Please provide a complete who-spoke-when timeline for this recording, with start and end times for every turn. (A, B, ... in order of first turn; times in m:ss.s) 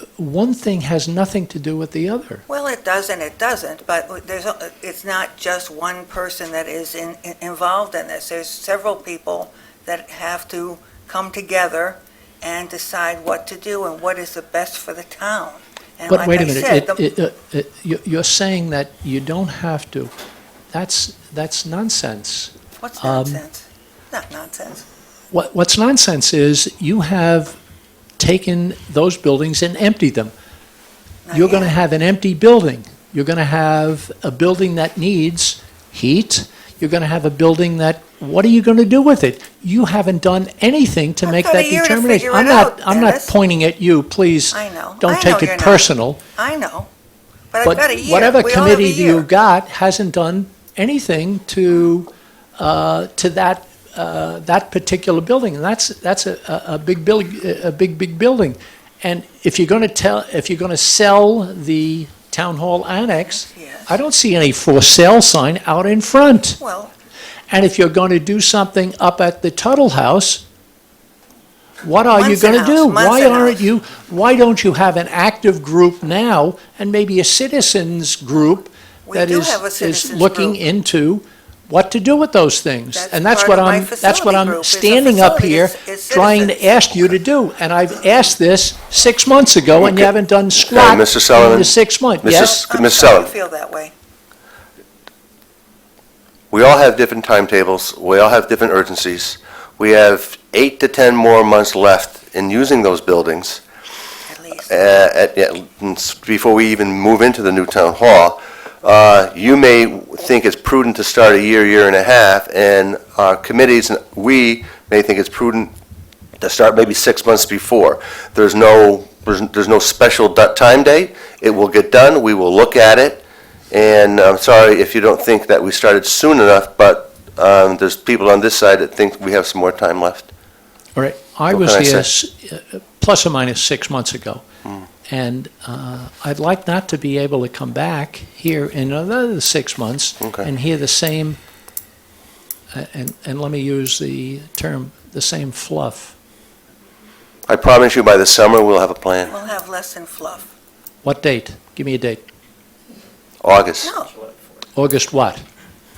0:00.2-0:02.4 A
0:02.5-0:17.0 B
0:16.1-0:20.1 A
0:20.7-0:23.4 A
0:22.8-0:24.8 B
0:25.3-0:27.6 A
0:28.2-0:30.3 A
0:31.2-0:31.7 B
0:31.3-0:46.2 A
0:41.2-0:43.3 B
0:44.5-0:46.9 B
0:47.5-0:49.2 B
0:47.6-1:06.6 A
1:03.3-1:03.9 B
1:06.6-1:06.9 B
1:07.5-1:10.4 A
1:11.8-1:32.6 A
1:12.1-1:13.6 B
1:19.0-1:20.6 B
1:22.9-1:26.9 B
1:30.7-1:31.7 C
1:32.2-1:33.3 C
1:32.3-1:33.9 B
1:36.5-1:43.6 C
1:44.2-1:44.9 B
1:44.7-1:55.7 C
1:56.4-2:10.3 C
2:10.9-2:14.4 A
2:11.5-2:12.0 C
2:15.1-2:21.4 A
2:20.2-2:20.5 C
2:22.7-2:26.1 A
2:27.5-2:29.3 C
2:29.3-2:30.5 B
2:31.0-2:32.2 A
2:33.4-2:33.9 C
2:33.8-2:34.1 B
2:34.7-2:35.4 A